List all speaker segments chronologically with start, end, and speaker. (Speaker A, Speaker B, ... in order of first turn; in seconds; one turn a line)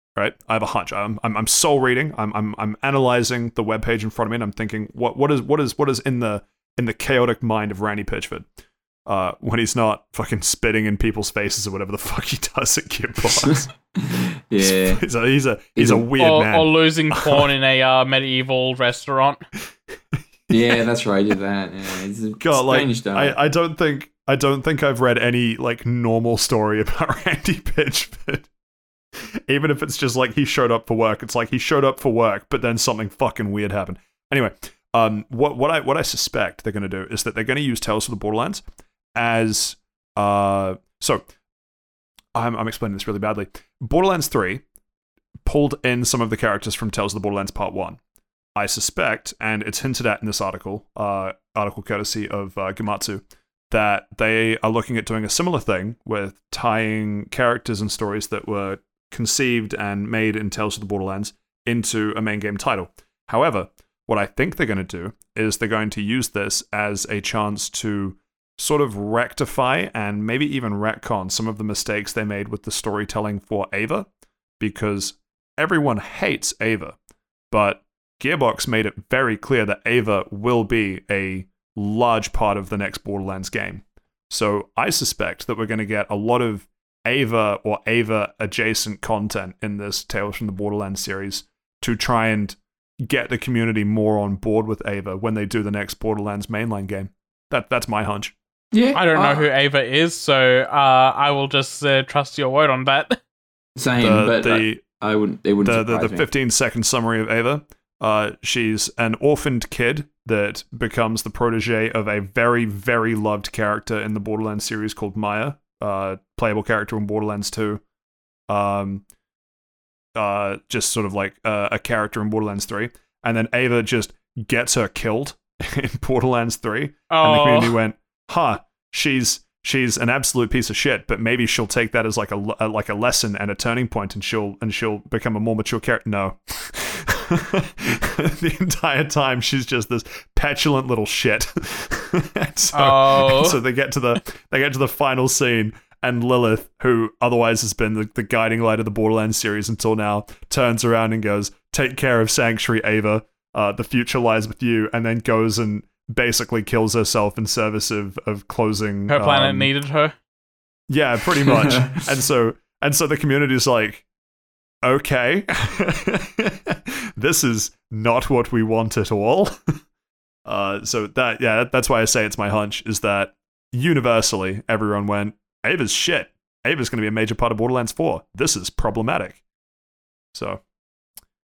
Speaker A: 0.1-8.4
Speaker A: 9.1-13.7
Speaker B: 13.4-15.0
Speaker A: 14.6-17.5
Speaker B: 15.8-16.1
Speaker C: 16.2-19.4
Speaker B: 20.5-23.4
Speaker A: 22.4-28.5
Speaker A: 29.2-38.6
Speaker A: 39.1-41.2
Speaker A: 42.3-44.6
Speaker A: 45.4-48.0
Speaker A: 48.5-74.0
Speaker A: 74.6-77.0
Speaker A: 77.5-98.3
Speaker B: 98.7-99.5
Speaker C: 98.9-103.2
Speaker B: 103.8-106.3
Speaker A: 104.0-104.8
Speaker A: 105.6-117.8
Speaker A: 118.5-119.0
Speaker A: 120.2-159.7
Speaker C: 127.1-127.8
Speaker C: 142.7-143.6
Speaker C: 159.1-160.1
Speaker A: 160.9-164.0
Speaker B: 161.4-162.0
Speaker A: 164.8-169.7
Speaker A: 170.4-179.4
Speaker A: 180.3-180.6